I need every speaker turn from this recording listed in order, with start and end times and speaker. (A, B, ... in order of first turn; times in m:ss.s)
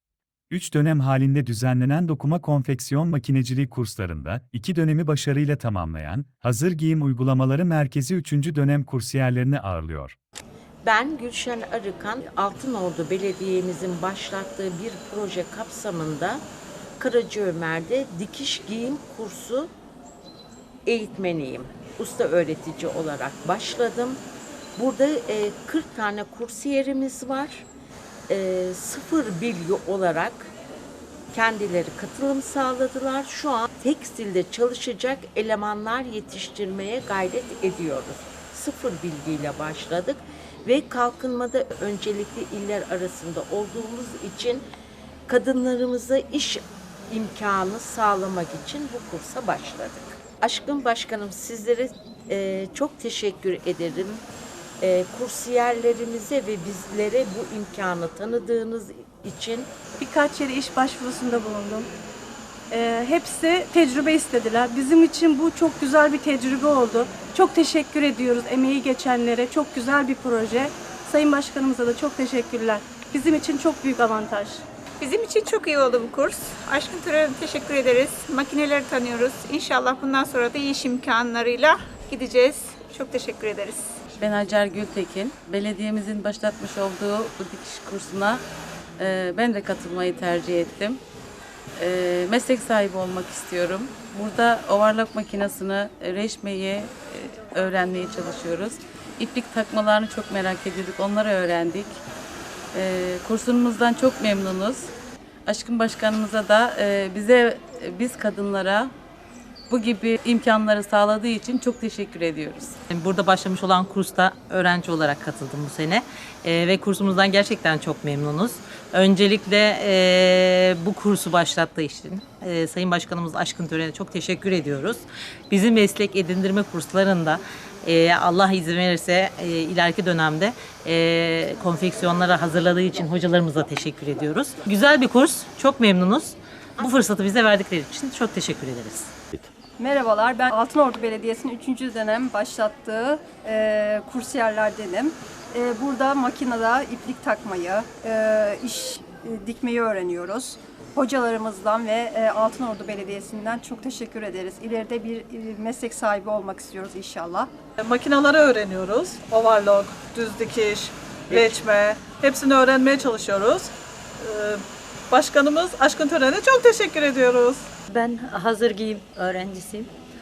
0:00.5-0:10.2 A
0:10.8-0:16.4 B
0:17.0-0:19.7 B
0:20.9-0:24.2 B
0:24.8-0:27.7 B
0:28.3-0:30.5 B
0:31.3-0:44.6 B
0:45.3-0:54.2 B
0:54.8-0:59.7 B
1:00.0-1:01.9 C
1:02.7-1:14.6 C
1:15.0-1:24.0 D
1:24.2-1:28.4 E
1:29.0-1:31.0 E
1:31.8-1:42.0 E
1:42.7-1:44.9 E
1:45.5-1:48.9 E
1:49.7-1:52.8 E
1:52.9-2:19.1 F
2:19.8-2:37.5 G
2:37.8-2:47.7 H
2:47.9-2:49.9 I